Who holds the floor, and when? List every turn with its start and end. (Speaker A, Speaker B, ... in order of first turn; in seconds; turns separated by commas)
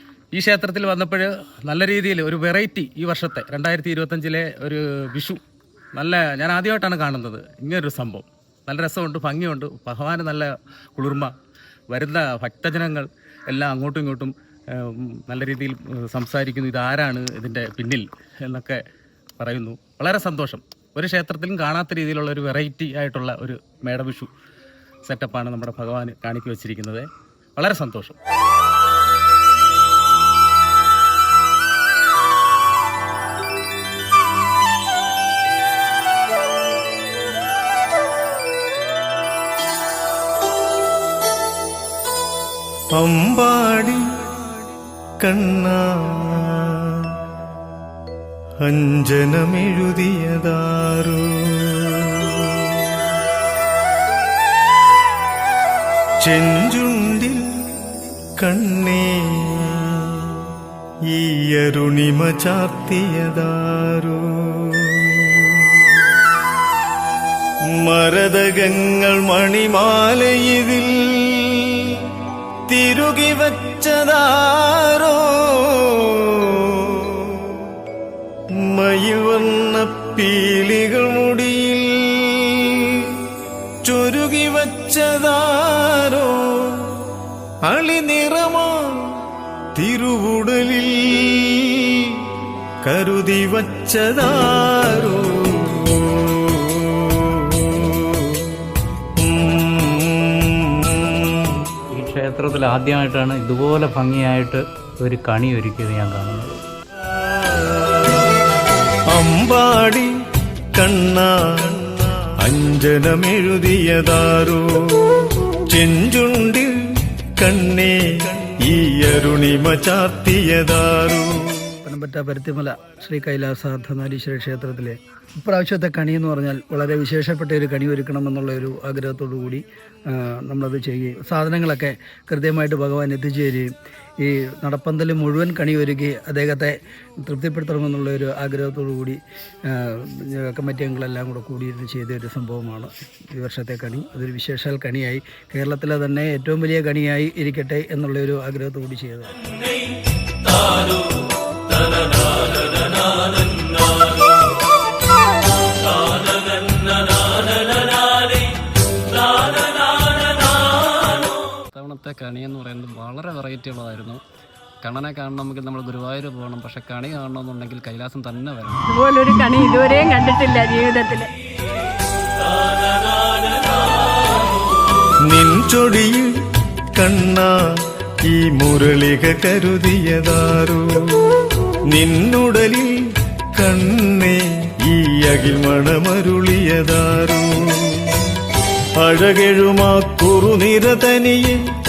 Speaker A: 0.3-5.4, Speaker A: 6.0-11.3, Speaker A: 11.9-18.8, Speaker A: 19.4-24.3, Speaker A: 25.1-28.1, Speaker B: 43.0-44.0, Speaker B: 45.2-47.2, Speaker B: 48.6-53.1, Speaker B: 56.2-57.7, Speaker B: 58.4-60.5, Speaker B: 61.1-66.0, Speaker B: 67.7-72.2, Speaker B: 72.7-77.7, Speaker B: 78.6-83.3, Speaker B: 83.8-87.0, Speaker B: 87.7-101.6, Speaker C: 101.9-106.6, Speaker B: 107.2-108.1, Speaker B: 109.1-110.1, Speaker B: 110.7-121.7, Speaker D: 121.8-149.3, Speaker E: 161.7-164.2, Speaker E: 164.8-168.9, Speaker F: 168.9-171.3, Speaker B: 175.2-176.3, Speaker B: 176.9-177.7, Speaker B: 178.2-181.3, Speaker B: 181.9-191.6